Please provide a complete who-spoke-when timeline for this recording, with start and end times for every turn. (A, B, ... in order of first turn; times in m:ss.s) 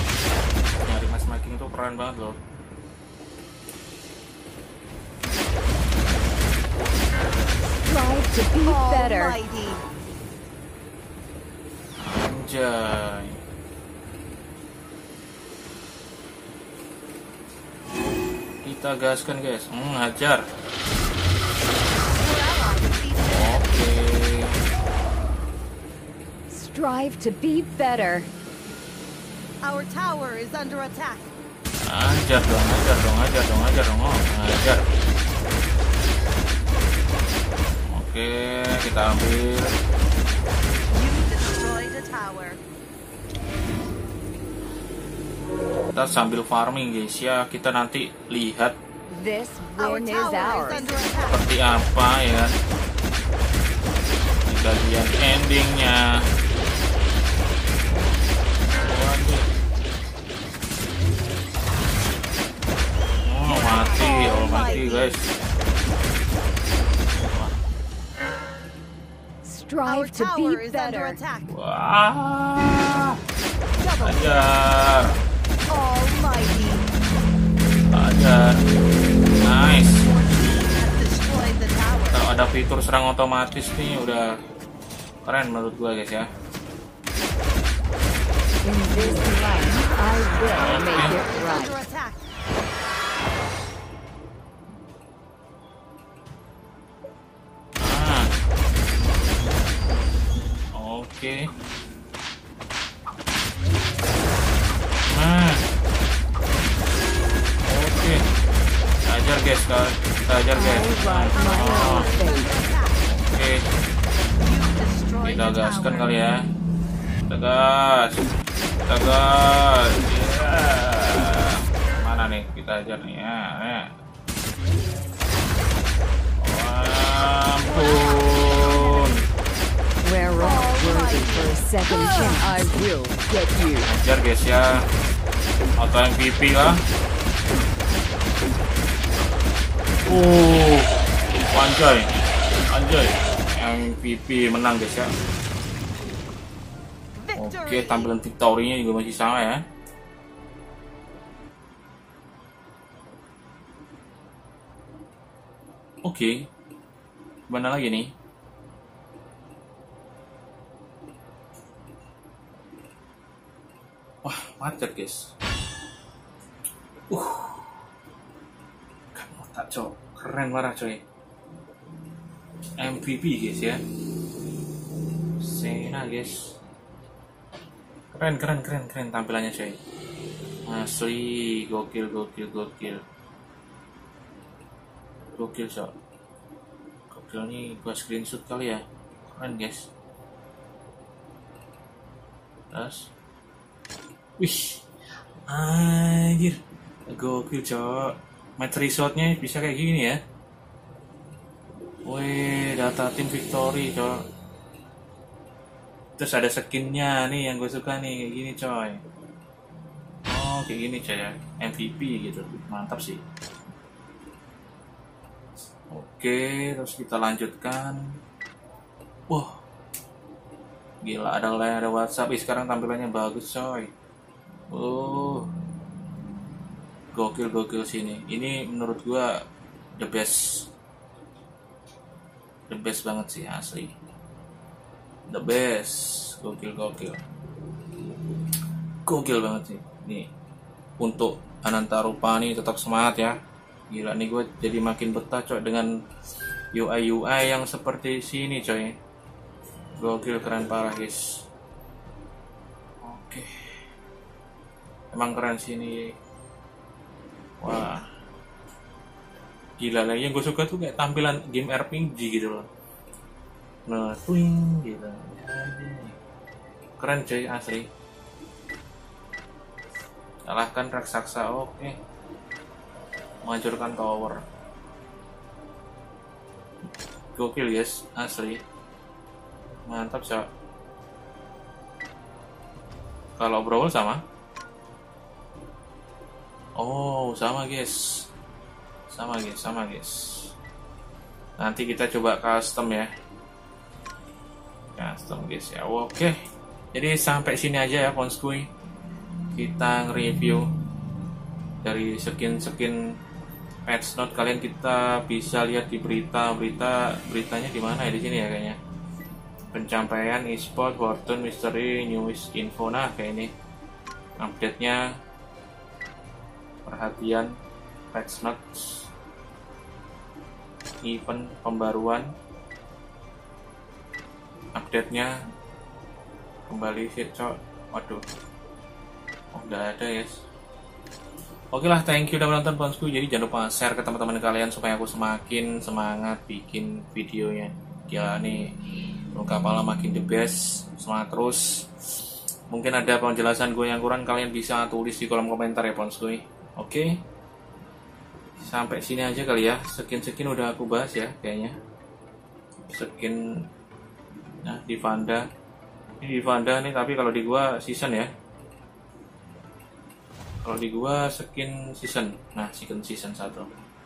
0:00.8-0:02.4 A
0:07.8-0:09.4 B
0:08.6-0:09.8 C
0:12.0-0:13.4 A
0:18.6-0:20.4 A
0:22.1-0:24.0 C
0:23.2-0:24.6 A
0:26.5-0:28.3 B
0:29.6-0:31.3 C
0:31.8-0:34.9 A
0:37.9-0:39.8 A
0:40.9-0:42.6 C
0:45.9-0:48.8 A
0:49.1-0:51.4 B
0:49.8-0:51.4 C
0:51.3-0:52.6 A
0:54.5-0:56.3 A
0:58.7-0:59.5 A
1:03.2-1:05.4 A
1:03.4-1:05.2 C
1:07.3-1:07.6 A
1:09.4-1:11.2 B
1:09.9-1:11.5 C
1:11.5-1:13.2 A
1:13.8-1:14.5 C
1:14.0-1:15.1 A
1:15.7-1:16.9 C
1:17.9-1:18.6 A
1:19.4-1:20.0 A
1:19.8-1:22.3 C
1:22.1-1:24.4 A
1:25.2-1:26.3 A
1:28.6-1:31.8 B
1:30.0-1:32.2 C
1:30.5-1:31.2 A
1:37.8-1:38.3 A
1:40.7-1:41.5 A
1:45.0-1:45.6 A
1:47.6-1:48.3 A
1:49.1-1:52.1 A
1:50.5-1:52.6 B
1:51.3-1:53.0 C
1:53.1-1:53.6 A
1:54.4-1:56.1 C
1:55.2-1:56.5 A
1:57.3-1:58.3 A
1:58.9-2:03.9 A
2:06.4-2:09.2 A
2:07.6-2:09.2 C
2:10.0-2:13.9 B
2:10.4-2:12.6 C
2:13.8-2:14.9 A
2:15.8-2:16.8 A
2:20.1-2:21.0 A
2:21.5-2:22.1 A
2:22.7-2:25.1 A
2:27.2-2:28.1 C
2:27.3-2:29.6 A
2:36.0-2:36.5 A
2:37.5-2:38.1 A
2:44.2-2:45.3 A
2:47.1-2:47.8 A
2:49.1-2:51.0 A
2:52.8-2:53.8 A
2:55.4-2:56.6 A
2:58.1-2:59.8 A
3:00.7-3:03.0 A
3:05.4-3:05.9 A
3:07.1-3:09.9 A
3:12.7-3:13.1 A
3:14.4-3:14.8 A
3:15.5-3:20.2 A
3:22.1-3:24.2 A
3:26.2-3:29.0 A
3:30.3-3:33.2 A
3:35.9-3:38.2 A
3:39.3-3:39.6 A
3:41.0-3:43.9 A
3:44.7-3:45.5 A
3:47.1-3:49.3 A
3:50.0-3:50.7 A
3:52.7-3:53.9 A
3:55.3-3:57.2 A
3:59.0-4:00.3 A
4:01.0-4:03.4 A
4:03.9-4:05.9 A
4:06.7-4:09.0 A
4:10.0-4:11.4 A
4:13.0-4:13.8 A
4:15.1-4:16.2 A
4:17.6-4:18.0 A
4:19.8-4:22.7 A
4:23.9-4:26.2 A
4:27.0-4:27.9 A
4:30.5-4:32.0 A
4:33.4-4:34.4 A
4:37.3-4:38.6 A
4:39.9-4:40.5 A
4:43.4-4:44.2 A
4:46.8-4:48.3 A
4:49.1-4:50.5 A
4:51.6-4:53.1 A
4:55.0-4:56.4 A
4:56.9-4:58.7 A
4:59.5-5:00.7 A
5:01.8-5:03.0 A
5:03.9-5:08.8 A
5:09.7-5:13.5 A
5:14.4-5:15.0 A
5:16.9-5:17.6 A
5:18.1-5:19.1 A
5:21.0-5:22.3 A
5:24.7-5:25.3 A
5:26.7-5:28.2 A
5:29.5-5:30.4 A
5:31.7-5:38.7 A
5:39.3-5:42.1 A
5:42.7-5:47.1 A
5:48.6-5:51.8 A
5:52.9-5:53.5 A
5:54.6-5:55.5 A
5:56.2-5:58.3 A
6:00.6-6:03.7 A